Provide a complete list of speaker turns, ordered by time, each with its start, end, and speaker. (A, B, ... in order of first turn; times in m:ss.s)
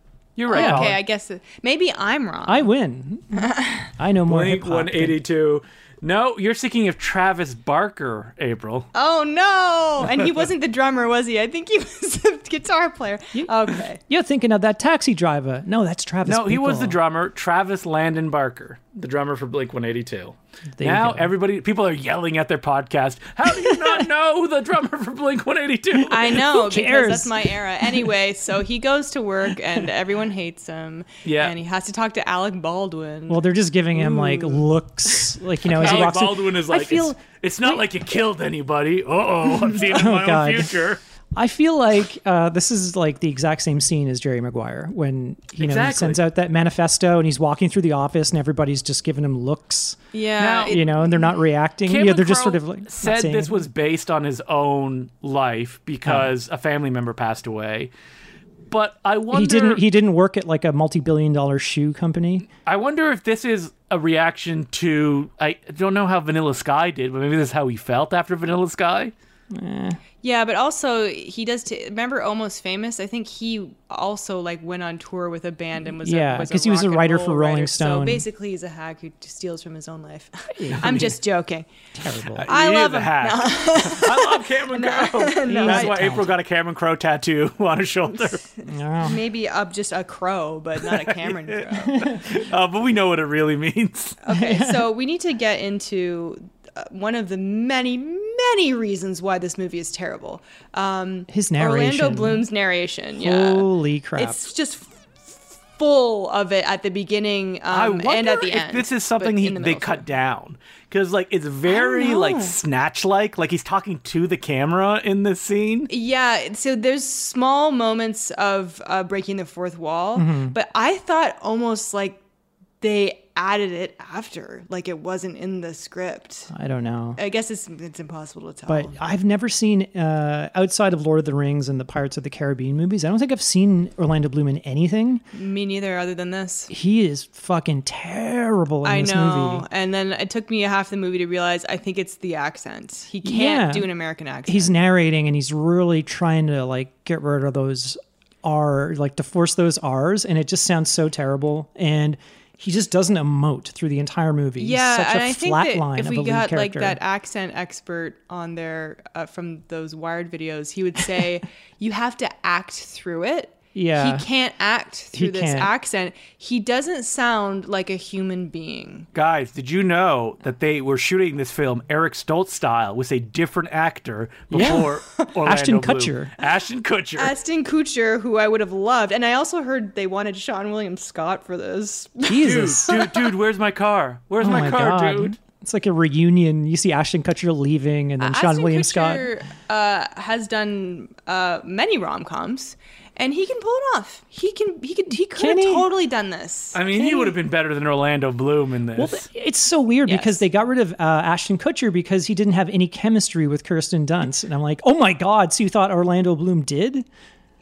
0:00.4-0:01.0 A
0:00.5-0:02.6 B
0:00.5-0:00.9 C
0:02.5-0:05.2 C
0:03.3-0:03.9 B
0:04.3-0:08.9 A
0:08.9-0:14.0 B
0:13.3-0:17.0 C
0:16.2-0:26.4 A
0:20.8-0:21.3 C
0:23.5-0:23.9 C
0:26.0-0:33.4 B
0:26.2-0:28.1 C
0:31.2-0:31.5 A
0:33.3-0:37.8 C
0:34.2-0:34.6 A
0:35.6-0:41.0 A
0:39.5-0:40.7 C
0:41.4-0:50.0 C
0:45.6-0:46.2 A
0:50.1-0:51.3 B
0:50.4-0:50.8 A
0:50.7-0:53.6 C
0:51.8-0:57.9 A
0:56.0-0:56.3 C
0:58.7-0:59.8 A
0:59.3-1:02.5 C
1:02.6-1:09.1 A
1:09.5-1:10.0 C
1:10.2-1:21.7 B
1:16.0-1:18.2 C
1:20.5-1:21.2 C
1:21.9-1:22.5 C
1:22.3-1:28.4 A
1:22.4-1:26.2 B
1:25.5-1:26.3 C
1:28.3-1:32.0 B
1:28.7-1:29.2 C
1:30.8-1:34.2 A
1:31.8-1:32.2 C
1:34.2-1:50.0 B
1:34.3-1:34.8 C
1:41.3-1:42.4 C
1:43.2-1:44.4 C
1:47.7-1:55.9 A
1:51.7-1:52.6 B
1:55.9-2:02.2 B
2:00.2-2:00.5 C
2:02.8-2:06.5 B
2:06.5-2:07.2 C
2:07.2-2:09.0 B
2:08.7-2:15.2 C
2:15.3-2:16.7 B
2:16.7-2:19.6 C
2:18.8-2:24.7 B
2:23.2-2:23.9 C
2:24.5-2:37.0 C
2:34.6-2:49.1 B
2:43.7-2:44.2 C
2:45.1-2:45.7 C
2:49.1-2:57.3 A
2:54.5-2:56.3 C
2:57.2-3:03.3 B
3:02.2-3:03.0 C
3:02.4-3:05.4 A
3:04.4-3:09.3 C
3:08.2-3:17.3 B
3:15.4-3:15.9 C
3:16.7-3:19.2 A
3:19.0-3:27.0 C
3:20.0-3:20.4 B